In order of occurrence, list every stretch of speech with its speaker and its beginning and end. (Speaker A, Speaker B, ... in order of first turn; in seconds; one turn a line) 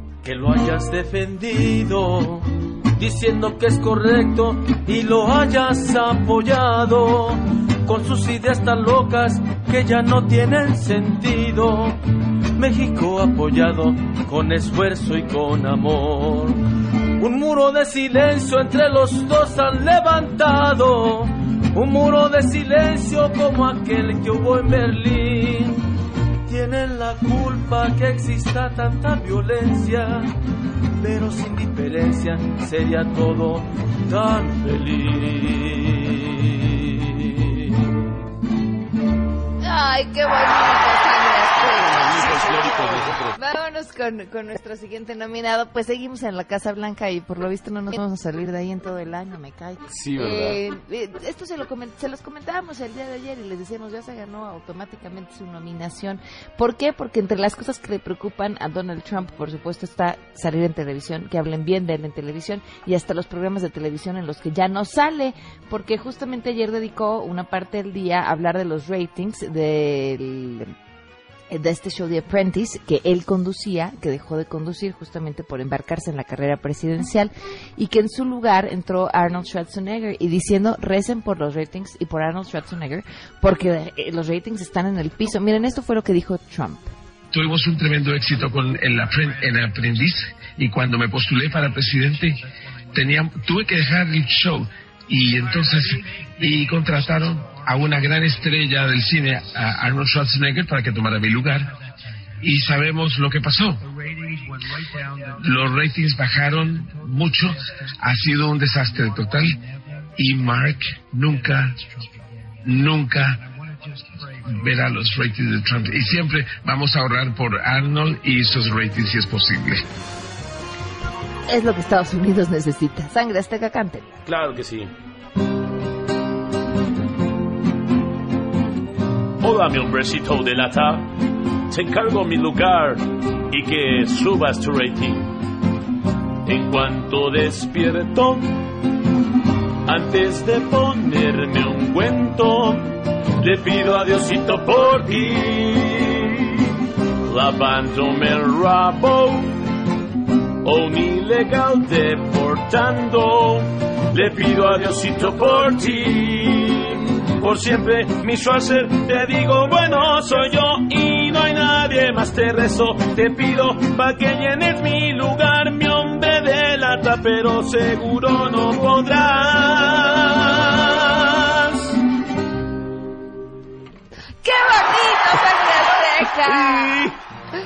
Speaker A: 0.2-12.0
Speaker A: 12.6-16.6
Speaker A: 17.2-25.8
Speaker A: 26.5-30.3
Speaker A: 31.0-37.6
Speaker B: 39.6-70.7
Speaker C: 41.9-43.4
Speaker C: 49.9-50.6
Speaker B: 71.5-86.9
Speaker D: 87.3-92.3
Speaker D: 92.9-101.7
Speaker D: 102.4-109.6
Speaker D: 110.2-111.8
Speaker D: 112.7-113.4
Speaker D: 114.3-119.8
Speaker B: 121.5-124.2
Speaker C: 124.3-124.9
Speaker C: 129.4-131.2
Speaker C: 131.7-135.3
Speaker C: 136.4-138.7
Speaker C: 139.9-146.5
Speaker C: 147.3-149.6
Speaker C: 150.6-171.8
Speaker B: 174.4-177.1
Speaker C: 176.6-177.1